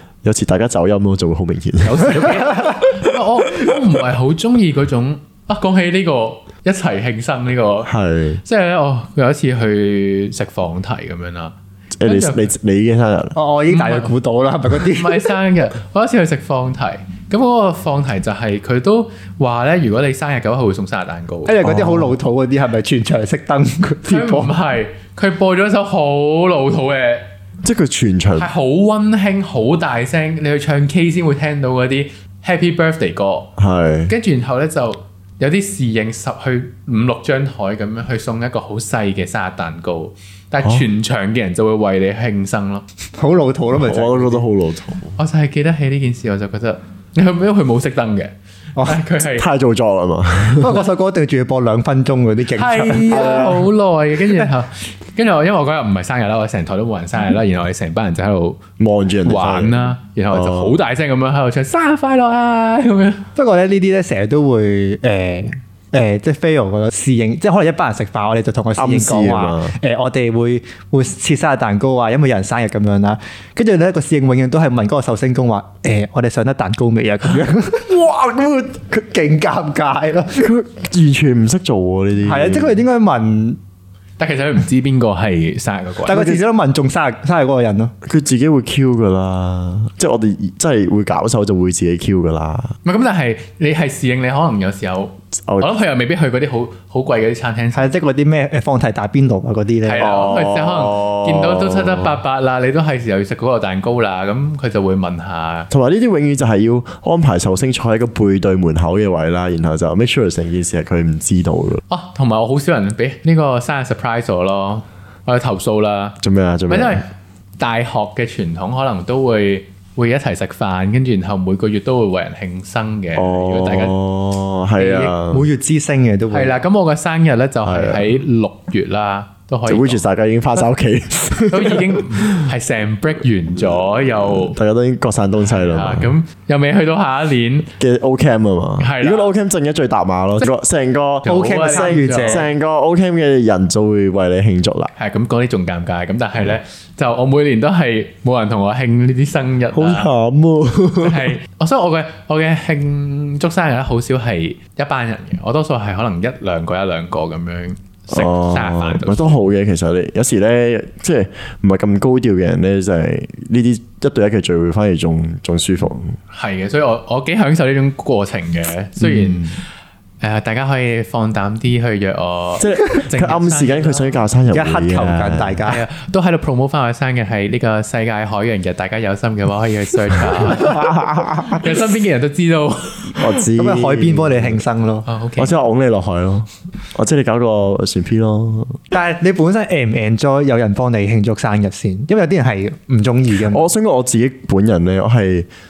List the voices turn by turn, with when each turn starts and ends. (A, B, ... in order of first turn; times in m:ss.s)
0:00.2-0:02.6 A
0:01.8-0:07.9 B
0:07.9-0:08.4 A
0:08.4-0:12.5 B
0:12.0-0:13.4 A
0:13.4-0:15.3 C
0:13.7-0:14.1 B
0:14.7-0:21.6 B
0:21.5-0:24.5 C
0:21.6-0:22.1 A
0:24.0-0:27.3 B
0:27.6-0:28.5 A
0:28.4-0:33.5 B
0:33.6-0:34.1 A
0:34.1-0:42.8 B
0:43.2-0:44.5 C
0:43.7-0:45.2 A
0:45.2-0:49.5 B
0:49.2-0:50.8 A
0:50.6-0:53.6 C
0:52.6-0:58.6 B
0:53.1-0:53.7 A
0:58.8-1:00.8 A
0:59.2-1:03.2 B
1:03.4-1:17.9 C
1:08.8-1:09.8 A
1:17.9-1:19.0 A
1:18.9-1:20.5 C
1:20.4-1:22.8 A
1:22.2-1:23.6 C
1:24.2-1:26.3 B
1:26.1-1:27.9 C
1:26.1-1:26.4 A
1:28.0-1:32.8 A
1:32.8-1:37.9 B
1:35.4-1:35.7 A
1:37.7-1:40.1 C
1:39.8-1:45.7 B
1:40.0-1:42.2 A
1:45.7-1:51.8 A
1:51.9-1:56.2 B
1:56.2-1:57.0 A
1:56.7-1:57.1 B
1:57.6-2:04.0 B
2:03.2-2:05.5 A
2:04.8-2:05.1 B
2:05.3-2:06.6 C
2:06.3-2:10.0 B
2:07.6-2:08.0 A
2:09.7-2:12.5 A
2:11.5-2:14.6 B
2:13.9-2:16.1 A
2:15.5-2:17.7 B
2:17.8-2:24.9 A
2:18.8-2:19.3 B
2:21.2-2:22.4 B
2:21.3-2:22.5 C
2:25.0-2:30.1 B
2:29.7-2:31.3 A
2:31.0-2:39.4 B
2:38.1-2:46.2 A
2:46.3-2:49.6 B
2:49.0-2:49.6 A
2:50.2-2:54.2 B
2:52.6-2:55.6 A
2:54.5-2:55.8 C
2:55.7-3:00.9 B
3:00.4-3:01.8 A
3:01.4-3:03.2 B
3:03.2-3:04.6 A
3:03.5-3:05.1 C
3:05.0-3:05.6 B
3:05.4-3:08.8 A
3:08.9-3:13.7 C
3:13.5-3:15.5 A